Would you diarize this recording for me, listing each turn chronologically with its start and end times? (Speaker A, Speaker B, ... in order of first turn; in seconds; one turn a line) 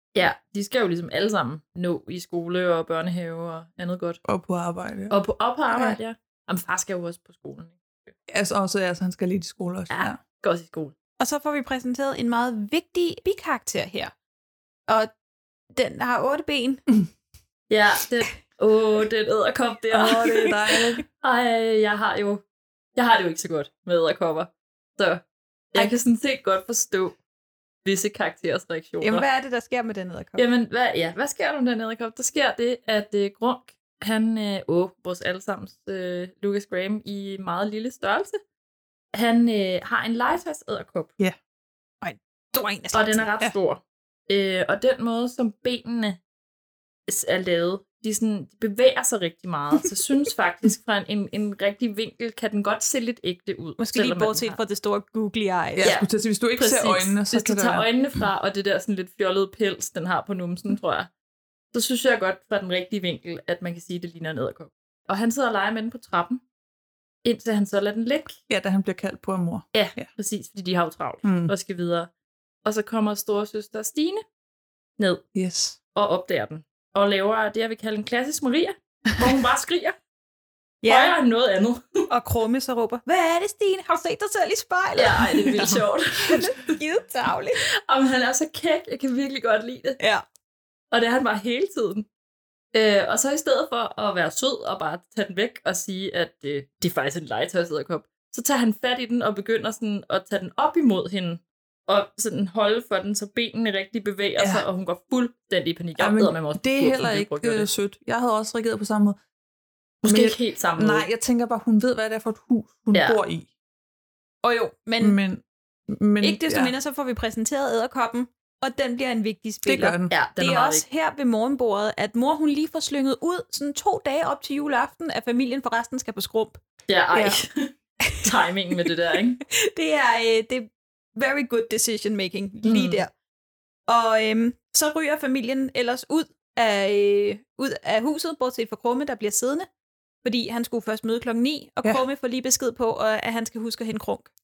Speaker A: 0.1-4.2
Speaker B: 4.3-5.2
Speaker A: 5.1-8.1
Speaker B: 8.3-10.2
Speaker A: 9.9-10.9
Speaker C: 11.2-14.1
Speaker C: 15.7-16.8
Speaker A: 17.7-20.5
Speaker B: 19.9-21.0
Speaker C: 20.2-20.5
Speaker A: 21.2-22.4
Speaker A: 23.0-25.2
Speaker A: 25.7-27.2
Speaker A: 27.8-29.3
Speaker C: 29.0-30.4
Speaker A: 30.4-38.4
Speaker A: 39.1-41.1
Speaker C: 42.0-43.5
Speaker A: 42.9-46.2
Speaker A: 47.1-54.6
Speaker C: 53.8-56.0
Speaker B: 55.8-57.9
Speaker C: 56.6-57.1
Speaker A: 57.3-61.1
Speaker A: 61.7-66.4
Speaker A: 67.2-68.4
Speaker B: 68.5-70.1
Speaker A: 69.7-72.1
Speaker B: 71.2-71.5
Speaker A: 72.7-74.2
Speaker A: 75.0-75.2
Speaker B: 75.3-75.8
Speaker A: 76.0-80.0
Speaker C: 80.8-81.2
Speaker A: 80.8-82.0
Speaker C: 82.1-87.6
Speaker A: 85.0-86.8
Speaker B: 85.6-86.4
Speaker A: 87.8-90.0
Speaker A: 90.9-92.1
Speaker A: 92.7-107.7
Speaker B: 104.4-104.7
Speaker B: 106.0-109.2
Speaker A: 110.0-111.1
Speaker B: 110.0-113.5
Speaker A: 112.9-113.2
Speaker C: 114.4-115.2
Speaker B: 115.0-116.7
Speaker C: 116.2-126.6
Speaker B: 119.7-120.1
Speaker A: 120.1-120.8
Speaker A: 126.9-129.4
Speaker B: 127.1-127.4
Speaker C: 129.5-133.1
Speaker A: 132.7-133.0
Speaker C: 133.9-139.7
Speaker C: 140.2-144.3